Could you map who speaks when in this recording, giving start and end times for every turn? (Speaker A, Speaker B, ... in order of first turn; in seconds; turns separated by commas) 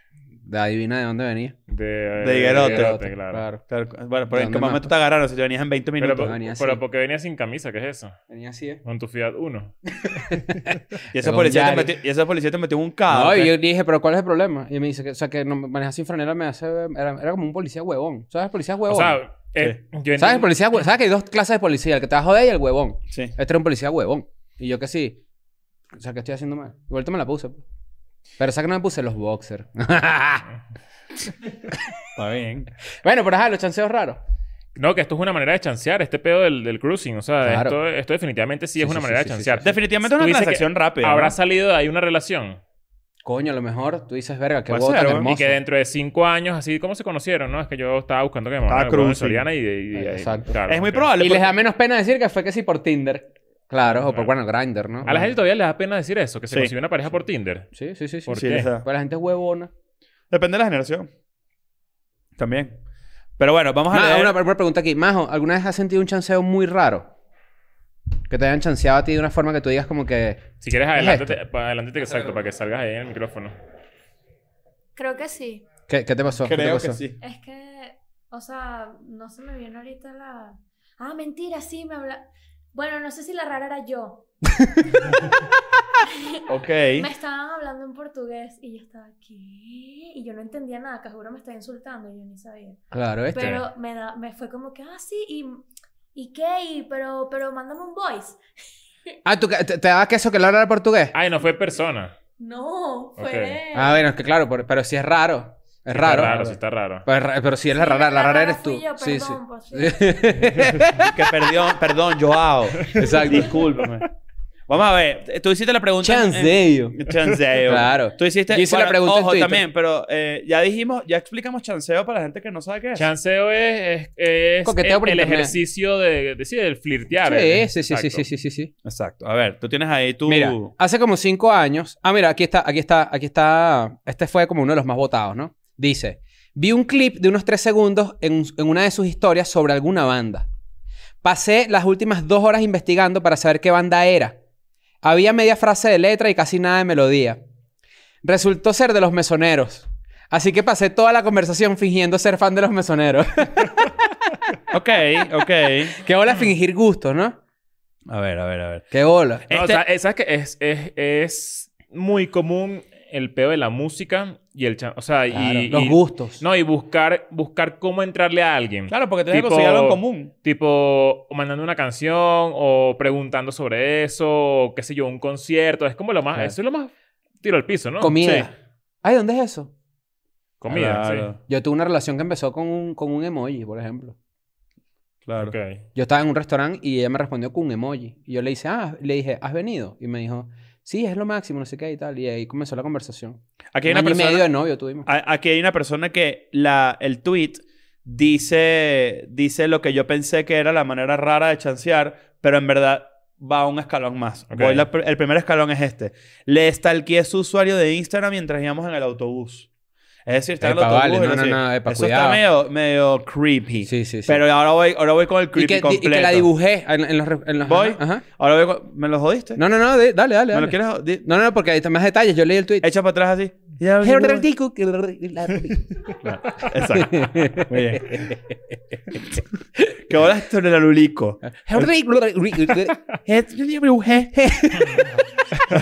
Speaker A: 0.4-1.6, Speaker B: 1.7-3.4, Speaker C: 2.2-2.9, Speaker A: 2.4-3.6, Speaker C: 3.7-6.3, Speaker A: 4.3-4.9, Speaker B: 6.0-8.2, Speaker A: 6.1-6.8, Speaker A: 8.3-8.8, Speaker B: 8.8-10.6, Speaker A: 10.0-11.9, Speaker C: 11.1-13.5, Speaker A: 13.1-19.2, Speaker B: 18.9-20.5, Speaker A: 20.2-25.2, Speaker A: 25.9-27.6, Speaker A: 28.4-30.4, Speaker C: 32.1-32.7, Speaker A: 33.0-34.2, Speaker B: 34.7-42.6, Speaker A: 37.4-37.8, Speaker A: 38.8-39.7, Speaker C: 39.6-41.4, Speaker A: 43.2-45.6, Speaker C: 44.7-45.3, Speaker B: 45.2-51.1, Speaker C: 48.7-49.4, Speaker A: 49.9-50.6, Speaker C: 50.7-51.5, Speaker A: 51.1-55.3, Speaker B: 53.9-54.3, Speaker B: 55.0-57.7, Speaker A: 57.7-59.7, Speaker B: 58.2-58.7, Speaker C: 58.4-58.8, Speaker C: 60.3-61.1, Speaker C: 62.4-62.8, Speaker C: 63.4-64.3, Speaker A: 63.9-67.1, Speaker A: 68.3-71.4, Speaker B: 70.6-73.5, Speaker D: 75.0-75.6, Speaker A: 75.9-77.0, Speaker C: 76.4-77.2, Speaker D: 77.2-84.3, Speaker A: 84.5-85.2, Speaker D: 86.1-86.4, Speaker C: 86.5-87.1, Speaker D: 86.9-98.4, Speaker A: 92.9-93.6, Speaker B: 93.3-93.6, Speaker A: 99.2-101.1, Speaker B: 101.1-102.2, Speaker D: 102.4-104.0, Speaker B: 103.2-103.6, Speaker A: 103.7-106.4, Speaker B: 105.9-107.0, Speaker C: 106.1-106.6, Speaker A: 107.0-111.7, Speaker D: 107.7-110.5, Speaker B: 110.5-110.8, Speaker C: 111.0-114.1, Speaker A: 112.9-113.7, Speaker C: 114.7-123.1, Speaker A: 116.0-117.0, Speaker A: 117.6-119.6, Speaker B: 122.9-128.2, Speaker A: 124.6-125.5, Speaker A: 127.2-128.7, Speaker C: 128.8-130.7, Speaker A: 130.2-140.5, Speaker A: 141.2-144.4, Speaker A: 145.0-147.4, Speaker A: 148.2-153.9, Speaker C: 154.7-156.0, Speaker A: 155.9-157.4, Speaker C: 158.1-158.9, Speaker A: 158.9-159.4, Speaker C: 159.5-159.8, Speaker B: 159.5-178.2, Speaker A: 165.3-166.4, Speaker C: 168.9-170.3, Speaker A: 178.0-179.7, Speaker C: 178.2-178.5, Speaker B: 180.6-181.3, Speaker C: 180.7-181.4, Speaker A: 181.5-184.2, Speaker C: 185.2-185.5, Speaker B: 185.4-185.8, Speaker A: 185.9-195.1, Speaker C: 193.7-194.5, Speaker C: 195.0-209.7, Speaker B: 204.5-204.8, Speaker C: 210.2-216.5, Speaker A: 210.6-212.4, Speaker A: 213.8-214.4, Speaker A: 215.5-218.2, Speaker C: 217.6-219.6, Speaker A: 219.6-222.9, Speaker C: 220.5-221.2, Speaker C: 222.8-224.4, Speaker A: 224.0-226.1, Speaker C: 226.2-228.3, Speaker A: 226.9-229.2, Speaker C: 230.1-231.9, Speaker A: 231.5-233.0, Speaker C: 233.2-234.3, Speaker A: 234.3-235.1